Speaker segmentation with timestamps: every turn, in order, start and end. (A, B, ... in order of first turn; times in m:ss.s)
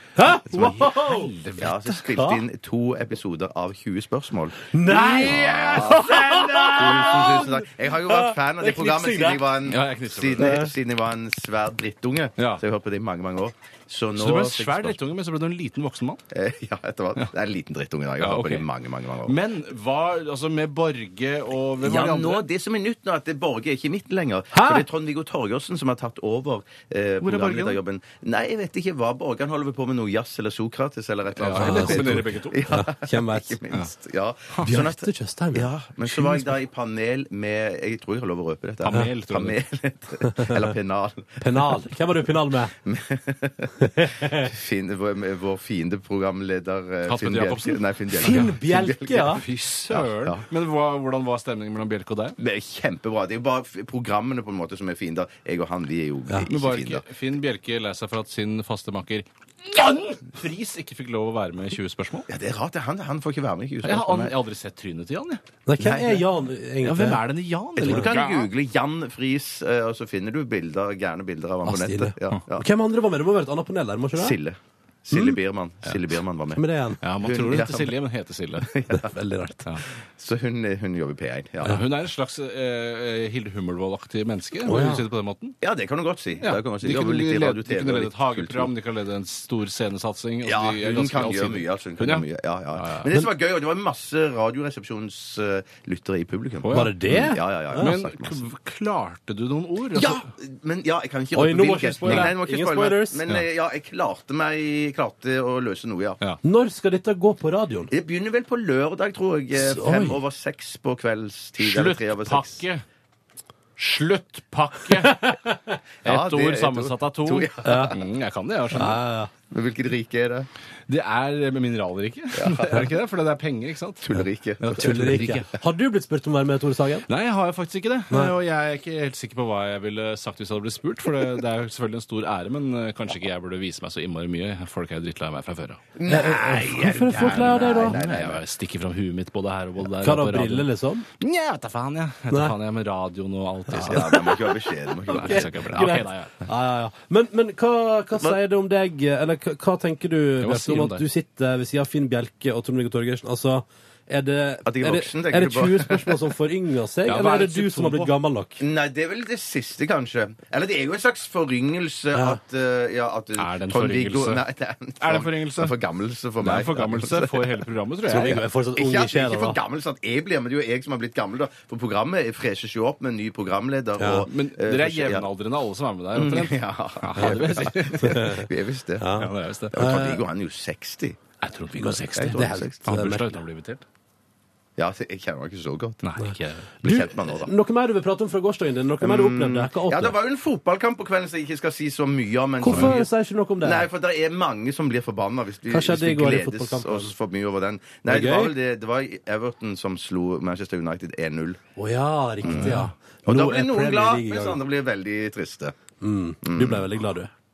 0:00.2-0:01.3 A
0:00.5-0:00.8 B
0:00.5-0:02.1 C
0:01.6-0:15.0 B
0:04.7-0:09.4 A
0:04.9-0:06.8 C
0:09.6-0:10.7 C
0:10.4-0:10.7 A
0:12.4-0:12.6 C
0:14.2-0:16.2 C
0:16.3-0:19.4 B
0:18.2-0:18.6 C
0:19.2-0:22.4 C
0:21.8-0:41.4 B
0:24.5-0:24.8 A
0:27.2-0:27.8 C
0:31.4-0:32.6 C
0:31.5-0:33.6 A
0:34.6-0:36.4 A
0:38.8-0:39.6 C
0:40.2-0:40.6 A
0:41.4-0:42.7 A
0:42.8-0:50.4 B
0:43.8-0:44.5 A
0:47.1-0:48.5 C
0:48.2-0:49.4 A
0:49.3-0:52.4 C
0:52.4-0:57.0 B
0:56.4-1:02.3 C
1:02.3-1:04.3 B
1:03.8-1:05.4 C
1:05.6-1:07.2 A
1:05.8-1:06.2 B
1:06.8-1:08.5 C
1:07.8-1:12.6 B
1:11.6-1:14.4 A
1:14.2-1:16.6 B
1:16.5-1:17.0 A
1:17.0-1:18.8 C
1:17.2-1:18.0 B
1:18.6-1:19.1 B
1:18.9-1:19.6 A
1:20.1-1:21.8 B
1:21.6-1:25.6 C
1:24.6-1:25.0 A
1:25.6-1:28.7 B
1:26.4-1:33.1 C
1:30.4-1:38.4 B
1:36.6-1:37.2 C
1:36.7-1:37.9 A
1:37.7-1:40.2 C
1:39.9-1:46.2 B
1:41.3-1:43.2 A
1:42.0-1:42.3 C
1:46.4-1:47.9 A
1:47.9-1:52.6 B
1:49.5-1:50.2 A
1:51.6-1:52.8 C
1:53.8-1:55.4 C
1:56.0-1:58.0 B
1:56.0-1:59.0 C
1:57.6-1:57.9 A
1:58.7-1:59.3 A
1:59.5-2:00.5 B
2:00.9-2:05.5 C
2:02.3-2:02.8 B
2:04.0-2:05.3 B
2:04.8-2:07.0 A
2:07.1-2:15.8 C
2:16.0-2:18.4 B
2:16.1-2:18.0 A
2:17.1-2:24.2 C
2:20.0-2:21.0 A
2:23.7-2:38.6 A
2:23.8-2:25.9 B
2:25.1-2:26.3 C
2:30.4-2:31.0 C
2:34.6-2:36.2 B
2:37.0-2:38.1 C
2:38.6-2:55.2 B
2:42.1-2:42.4 A
2:43.4-2:44.4 C
2:45.0-2:45.7 C
2:46.4-2:48.4 C
2:48.1-2:49.6 A
2:54.0-2:54.2 A
2:54.2-2:58.3 C
2:56.1-2:59.1 B
2:58.0-2:58.4 A
2:59.0-3:00.2 A
2:59.2-2:59.8 C
2:59.7-3:01.2 B
3:01.4-3:03.8 C
3:01.8-3:03.4 A
3:02.1-3:02.8 B
3:04.8-3:06.0 B
3:06.0-3:06.7 C
3:06.8-3:07.5 B
3:06.8-3:10.1 A
3:09.0-3:13.1 B
3:12.6-3:13.9 A
3:12.7-3:13.0 C
3:13.6-3:21.6 B
3:15.7-3:17.1 A
3:18.0-3:18.5 A
3:21.8-3:24.6 A
3:22.4-3:25.7 B
3:22.5-3:22.9 C
3:26.0-3:27.3 A
3:26.4-3:26.8 B